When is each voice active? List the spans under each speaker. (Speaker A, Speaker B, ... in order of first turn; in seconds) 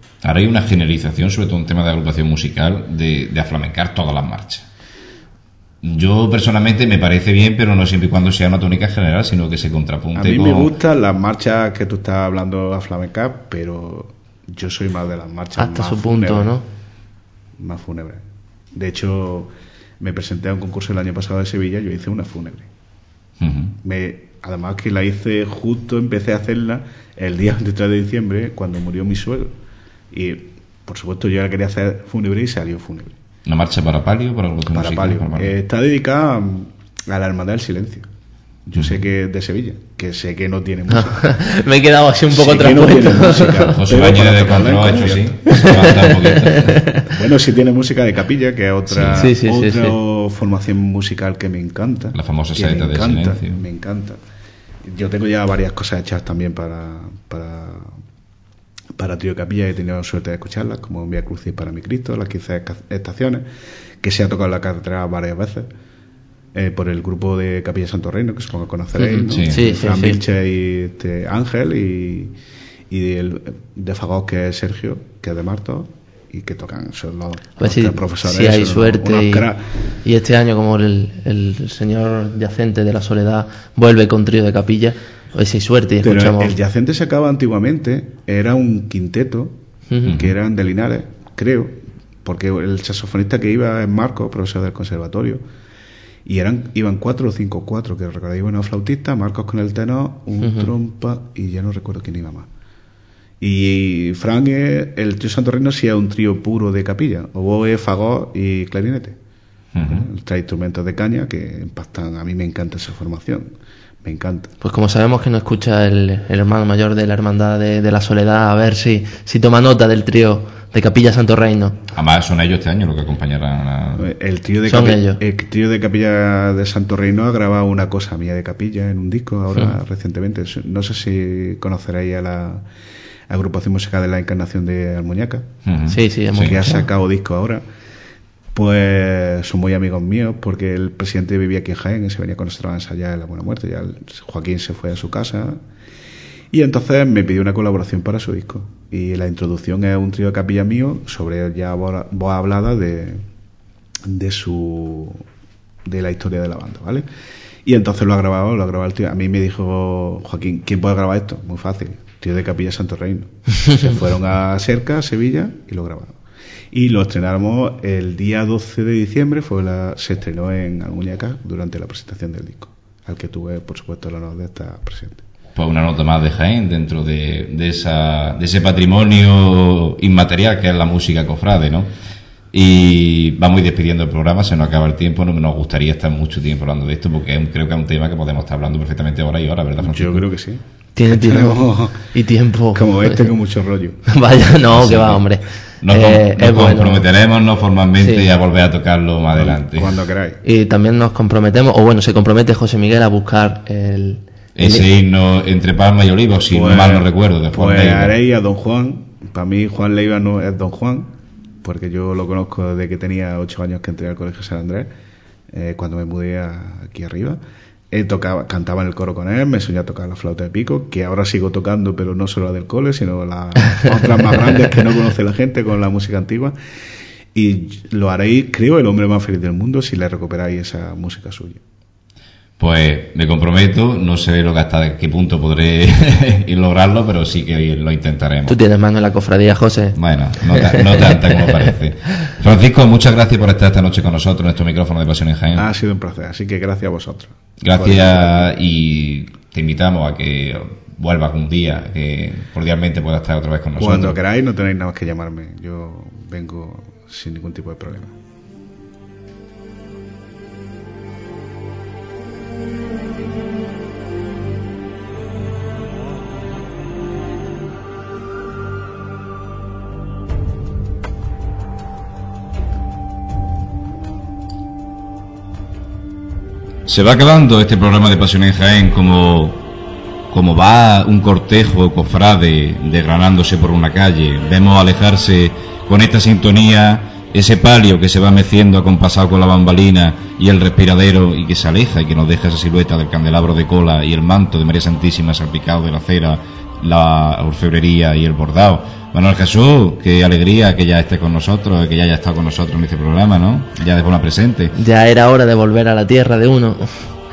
Speaker A: 0.2-4.7, 5.8-10.7, 23.4-23.8, 33.5-35.5, 38.7-39.0, 43.7-46.8, 48.9-49.3, 52.1-53.6, 69.3-69.7, 90.1-90.3, 109.7-110.1, 121.9-124.0, 135.6-136.6, 175.5-181.9, 182.5-190.2, 194.6-195.2, 195.8-200.0, 204.6-208.2, 232.6-238.6, 239.9-245.7, 247.6-254.2, 276.9-279.6, 280.3-304.7
Speaker B: 10.1-16.6, 17.6-18.2, 18.7-22.7, 23.8-29.5, 30.1-33.2, 34.7-38.1, 38.6-41.4, 42.3-46.1, 47.0-54.2, 54.9-58.0, 59.0-63.4, 64.0-65.7, 66.5-72.3, 72.9-79.6, 86.0-89.5, 90.1-95.4, 96.2-102.5, 103.4-109.2, 109.8-113.5, 114.0-114.5, 124.0-132.6, 133.3-135.5, 136.3-137.6, 138.5-145.6, 146.5-153.2, 154.1-155.2, 155.8-157.0, 157.6-166.1, 166.7-175.2, 189.8-192.1, 192.7-194.1, 199.3-200.4, 206.5-211.1, 211.6-214.9, 215.5-217.4, 217.9-226.5, 227.3-231.6, 245.6-248.5, 253.8-258.1
Speaker C: 15.6-16.6, 40.9-43.8, 45.5-47.1, 49.1-50.0, 69.0-70.2, 77.6-79.5, 80.0-86.5, 89.9-90.2, 100.4-100.7, 114.6-121.8, 124.7-125.2, 135.9-136.9, 190.9-193.3, 194.1-197.1, 198.0-198.3, 200.4-204.9, 238.5-241.7, 304.7-306.9